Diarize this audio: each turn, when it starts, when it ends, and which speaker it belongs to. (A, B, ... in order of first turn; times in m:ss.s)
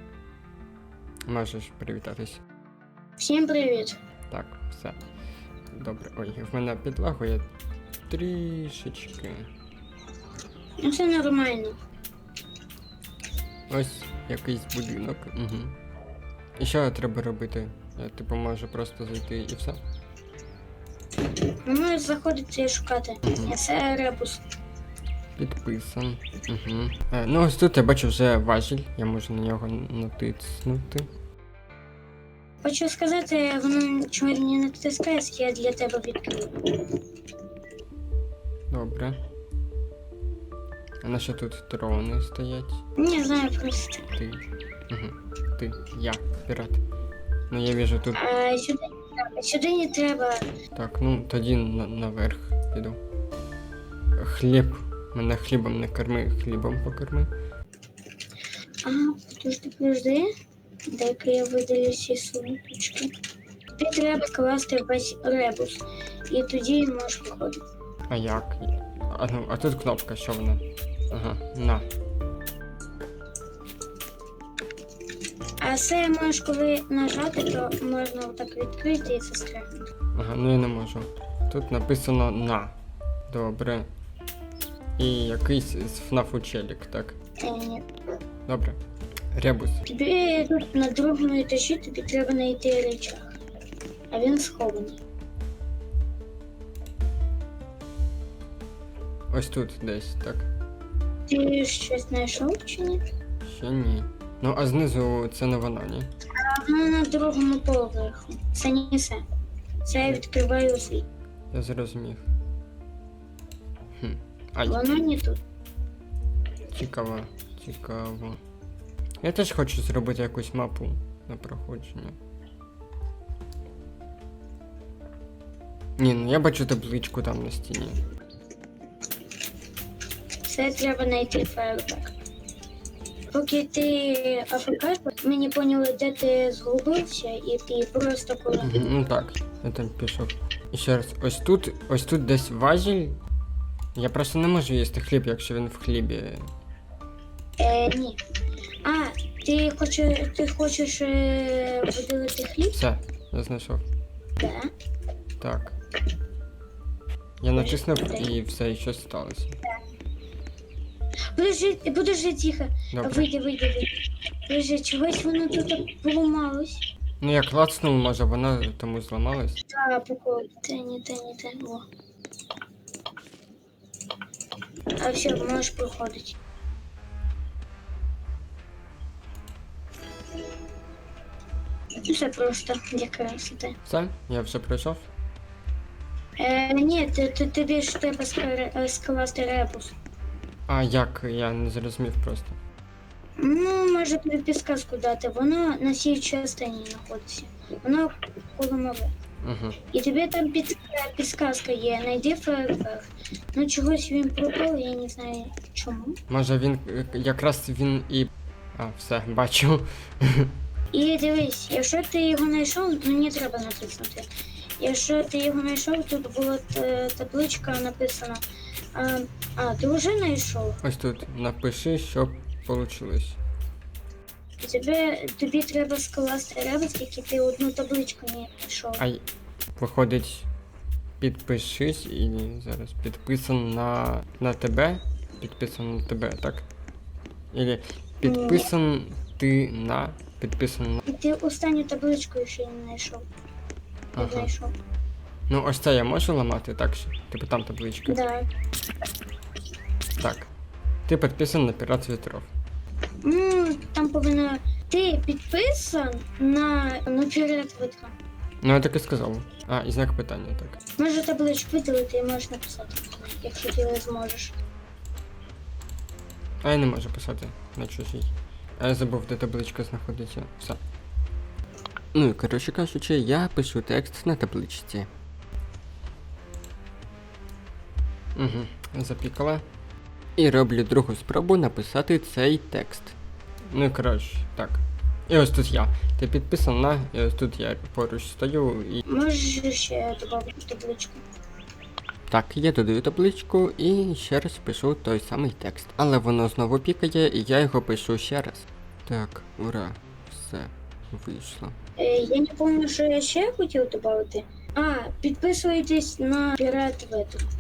0:01.3-0:02.4 A
0:03.2-0:04.0 B
0:04.3-0:05.0 A
0:05.7-0:07.5 A
0:08.1-0:09.5 A
0:10.8-0:11.8 B
0:13.7-0:15.8 A
0:16.6-0:19.8 A
0:21.6-0:24.5 B
0:23.2-0:23.5 A
0:25.4-0:31.1 A
0:32.6-0:36.8 B
0:38.7-0:39.2 A
0:41.0-0:42.8 A
0:43.0-0:44.1 B
0:44.2-0:46.8 A
0:47.5-0:48.2 A
0:48.2-0:50.5 B
0:50.8-0:53.0 A
0:54.2-0:57.3 A
0:58.8-1:00.3 B
1:00.9-1:03.1 B
1:03.8-1:07.6 B
1:08.1-1:11.8 A
1:15.6-1:19.9 B
1:20.1-1:22.8 A
1:23.3-1:23.9 A
1:25.0-1:27.2 A
1:27.4-1:27.9 B
1:28.5-1:28.8 A
1:29.3-1:29.8 A
1:29.9-1:33.3 B
1:34.1-1:35.0 B
1:39.3-1:40.5 A
1:41.3-1:43.0 B
1:43.4-1:46.1 A
1:46.3-1:49.2 B
1:49.8-1:51.1 B
1:51.5-1:52.2 A
1:54.0-1:54.8 A
1:54.6-1:55.4 B
1:56.7-1:58.4 A
1:59.2-2:02.2 A
2:06.0-2:08.0 A
2:10.4-2:12.2 B
2:13.3-2:18.9 B
2:18.6-2:23.2 A
2:24.0-2:26.5 A
2:27.6-2:28.2 B
2:28.8-2:32.8 B
2:32.7-2:33.8 A
2:34.4-2:34.7 B
2:35.4-2:35.8 A
2:37.4-2:39.6 A
2:37.6-2:38.3 B
2:41.3-2:46.8 B
2:42.9-2:43.3 A
2:47.2-2:49.6 A
2:49.7-2:51.9 B
2:55.0-2:56.4 B
3:02.0-3:03.8 B
3:03.8-3:05.1 A
3:06.4-3:10.0 B
3:10.7-3:12.6 A
3:13.4-3:19.1 B
3:19.4-3:19.8 A
3:19.9-3:26.2 B
3:26.3-3:30.5 A
3:30.9-3:38.4 B
3:38.9-3:40.8 B
3:40.8-3:43.4 A
3:44.6-3:49.0 B
3:49.8-3:50.5 A
3:51.2-3:56.7 A
3:57.5-4:01.0 A
3:58.2-3:58.7 B
4:01.0-4:03.2 B
4:04.1-4:04.5 A
4:04.2-4:04.8 B
4:05.5-4:08.2 A
4:08.1-4:08.5 B
4:10.2-4:10.5 A
4:11.1-4:12.5 A
4:13.2-4:18.2 B
4:18.6-4:20.8 A
4:21.0-4:24.6 B
4:26.6-4:30.8 A
4:32.1-4:35.1 A
4:38.4-4:39.6 A
4:40.4-4:43.2 A
4:43.7-4:49.0 A
4:49.0-4:51.2 B
4:52.3-5:01.8 A
5:02.0-5:07.5 B